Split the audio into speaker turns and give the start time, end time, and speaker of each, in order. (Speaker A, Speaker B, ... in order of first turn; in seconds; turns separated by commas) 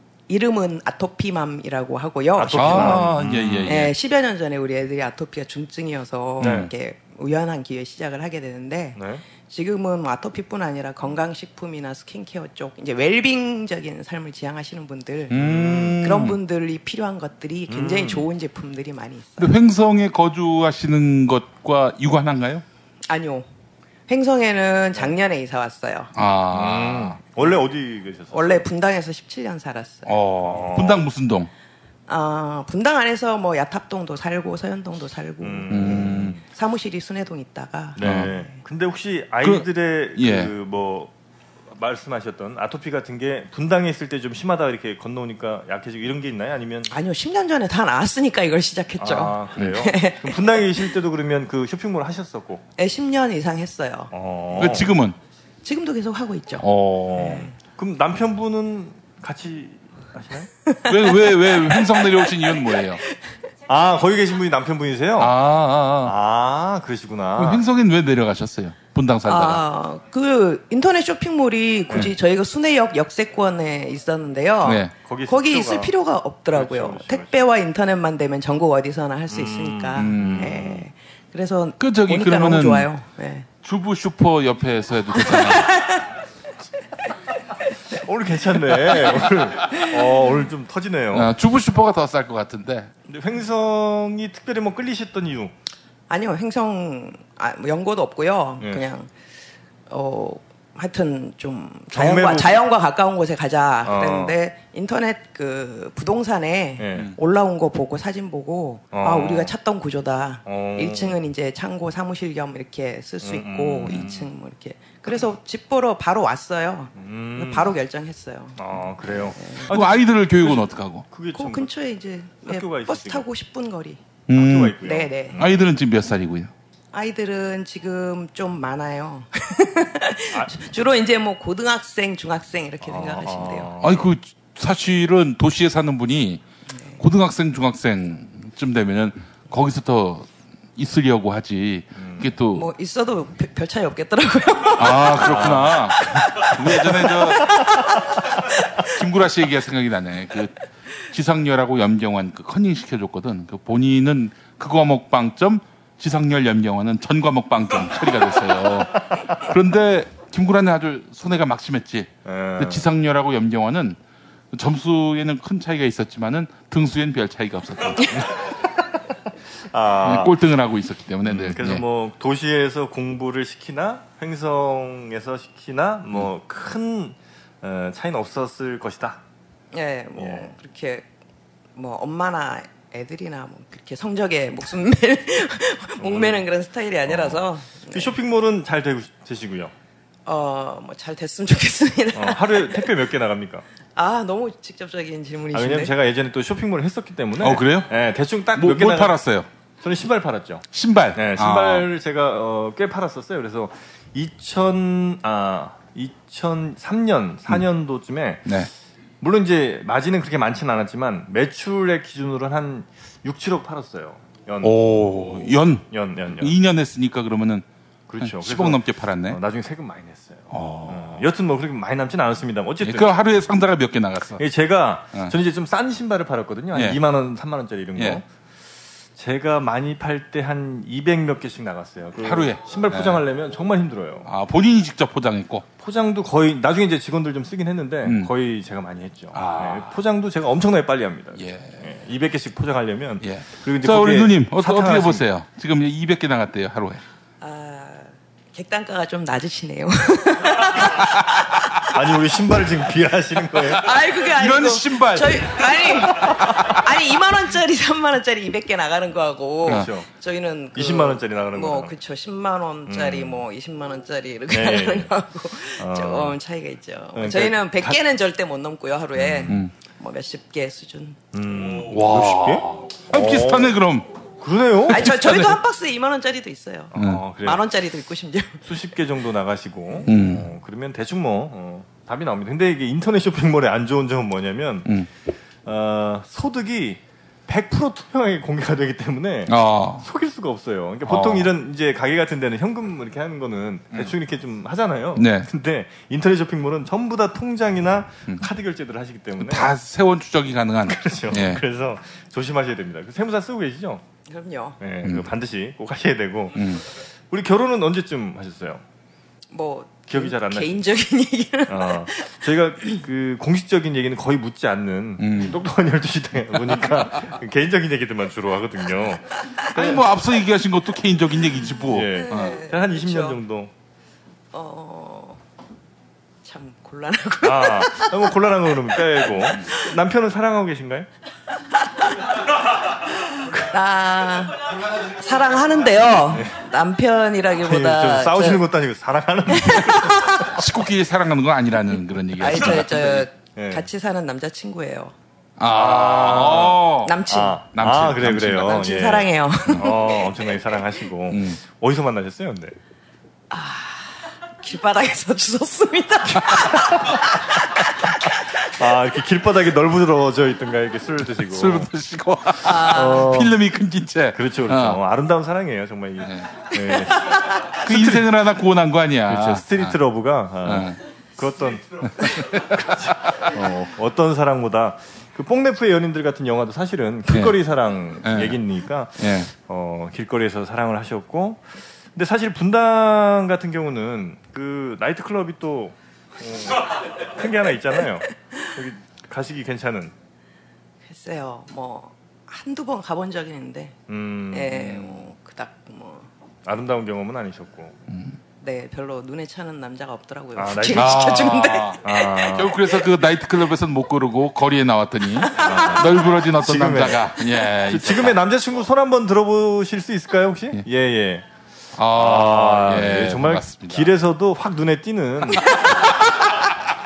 Speaker A: 0.3-19.6, Speaker B: 2.4-3.9, Speaker C: 2.5-3.9, Speaker B: 6.4-6.7, Speaker C: 6.4-6.7, Speaker B: 8.9-9.2, Speaker C: 15.3-16.4, Speaker B: 15.3-16.0, Speaker B: 17.7-18.3, Speaker C: 19.4-22.6, Speaker A: 23.1-23.5, Speaker A: 24.1-26.1, Speaker C: 26.1-27.2, Speaker B: 26.5-28.7, Speaker A: 28.3-30.2, Speaker C: 30.1-31.5, Speaker B: 30.4-31.1, Speaker A: 32.1-38.6, Speaker B: 35.4-36.4, Speaker C: 35.7-36.4, Speaker B: 38.0-41.1, Speaker C: 38.0-38.3, Speaker C: 39.4-40.5, Speaker B: 41.7-46.9, Speaker A: 46.9-50.9, Speaker B: 49.0-52.6, Speaker A: 52.8-54.1, Speaker B: 54.1-55.0, Speaker C: 54.6-55.2, Speaker A: 55.6-57.5, Speaker C: 56.6-57.5, Speaker B: 57.1-60.5, Speaker A: 60.6-62.5, Speaker C: 60.9-63.0, Speaker B: 63.7-65.4, Speaker C: 65.2-66.1, Speaker B: 66.0-67.6, Speaker C: 67.4-69.6, Speaker A: 69.2-83.5, Speaker C: 74.6-74.9, Speaker B: 75.0-75.9, Speaker B: 76.5-77.4, Speaker B: 79.3-80.8, Speaker C: 80.0-80.7, Speaker C: 81.8-82.9, Speaker C: 83.6-85.7, Speaker A: 85.1-86.1, Speaker B: 87.9-91.3, Speaker A: 88.9-89.1, Speaker A: 89.7-90.3, Speaker C: 91.1-92.9, Speaker B: 93.1-95.5, Speaker A: 96.1-99.1, Speaker B: 98.6-98.9, Speaker A: 99.9-119.7, Speaker B: 101.9-102.6, Speaker B: 103.8-104.4, Speaker B: 106.8-107.1, Speaker B: 108.9-109.5, Speaker B: 110.5-111.2, Speaker B: 113.2-114.3, Speaker B: 117.0-117.8, Speaker B: 118.6-121.7, Speaker C: 119.7-121.1, Speaker A: 121.3-124.0, Speaker B: 122.4-123.3, Speaker C: 124.3-124.8, Speaker B: 124.3-125.6, Speaker A: 124.8-125.5, Speaker C: 125.4-126.5, Speaker A: 126.9-133.8, Speaker B: 132.8-134.1, Speaker C: 133.8-136.4, Speaker A: 136.7-137.0, Speaker C: 137.0-142.7, Speaker B: 141.9-142.4, Speaker A: 142.5-148.0, Speaker C: 144.8-147.5, Speaker B: 145.2-145.8, Speaker C: 148.9-150.6, Speaker C: 151.1-164.0, Speaker B: 162.2-162.9, Speaker C: 164.5-168.3, Speaker B: 168.1-168.5, Speaker B: 169.6-170.4, Speaker C: 170.0-171.8, Speaker B: 171.2-179.2, Speaker A: 179.7-181.1, Speaker B: 180.2-180.5, Speaker A: 181.7-188.2, Speaker B: 186.0-186.4, Speaker B: 187.0-189.7, Speaker A: 190.2-192.9, Speaker B: 192.1-193.7, Speaker A: 193.9-195.9, Speaker B: 195.5-199.2, Speaker C: 197.4-197.9, Speaker C: 198.5-199.5, Speaker B: 199.8-208.6, Speaker C: 200.7-201.9, Speaker B: 209.2-216.5, Speaker C: 214.6-217.7, Speaker B: 218.1-223.1, Speaker C: 218.2-219.4, Speaker C: 220.5-221.2, Speaker C: 222.8-224.4, Speaker B: 224.4-228.2, Speaker C: 226.7-227.0, Speaker C: 228.0-228.2, Speaker B: 229.2-234.3, Speaker C: 232.2-233.2, Speaker C: 234.2-235.7, Speaker B: 235.8-245.2, Speaker C: 238.0-238.3, Speaker C: 239.3-240.0, Speaker C: 241.4-241.8, Speaker C: 243.2-247.0, Speaker A: 247.4-252.0, Speaker B: 251.9-253.9, Speaker A: 253.8-271.2, Speaker C: 254.1-255.7, Speaker B: 259.6-260.1, Speaker B: 260.7-262.0, Speaker B: 262.9-263.5, Speaker B: 264.5-265.1, Speaker B: 265.8-266.4, Speaker B: 267.1-268.0, Speaker B: 269.1-269.6, Speaker C: 269.5-269.8, Speaker B: 271.3-273.8, Speaker C: 271.8-274.1, Speaker B: 274.4-275.1, Speaker A: 274.9-278.7, Speaker C: 274.9-275.6, Speaker B: 276.9-277.7, Speaker C: 276.9-277.2, Speaker B: 278.6-284.9, Speaker C: 280.1-280.5, Speaker B: 285.6-299.7, Speaker C: 289.5-290.1, Speaker C: 291.1-291.5, Speaker C: 295.1-295.5, Speaker C: 299.4-301.6, Speaker B: 300.9-304.0, Speaker A: 304.3-304.8, Speaker B: 304.8-308.8, Speaker C: 305.0-305.3, Speaker C: 306.6-306.9, Speaker A: 309.5-313.0, Speaker B: 310.1-310.8, Speaker B: 311.7-320.0, Speaker C: 315.2-315.6, Speaker C: 319.7-322.6, Speaker B: 321.9-323.7, Speaker A: 322.0-323.4, Speaker A: 324.5-325.4, Speaker A: 326.4-328.3, Speaker B: 327.4-331.1, Speaker A: 328.9-329.8, Speaker A: 333.4-338.7, Speaker B: 336.3-336.6, Speaker B: 337.6-340.6, Speaker C: 339.7-343.2, Speaker A: 342.4-345.1, Speaker B: 343.5-343.9, Speaker C: 345.6-348.9, Speaker B: 345.7-352.8, Speaker A: 347.0-347.7, Speaker A: 348.6-350.6, Speaker C: 351.3-351.6, Speaker A: 353.5-358.4, Speaker B: 358.7-361.9, Speaker C: 361.4-365.0, Speaker A: 362.6-363.3, Speaker B: 362.8-363.6, Speaker B: 364.3-368.3, Speaker C: 366.2-366.6, Speaker C: 367.8-370.0, Speaker B: 369.2-390.1, Speaker C: 370.6-371.0, Speaker C: 372.2-373.8, Speaker C: 377.3-377.6, Speaker C: 378.2-378.6, Speaker C: 379.2-379.5, Speaker A: 391.0-393.9, Speaker B: 394.1-395.2, Speaker A: 394.5-396.3, Speaker B: 396.6-398.0, Speaker C: 398.1-398.4, Speaker A: 398.6-403.0, Speaker B: 400.6-401.4, Speaker C: 400.9-408.4, Speaker B: 402.0-402.8, Speaker A: 405.4-406.1, Speaker B: 405.5-411.5, Speaker C: 411.9-414.1, Speaker B: 412.1-415.8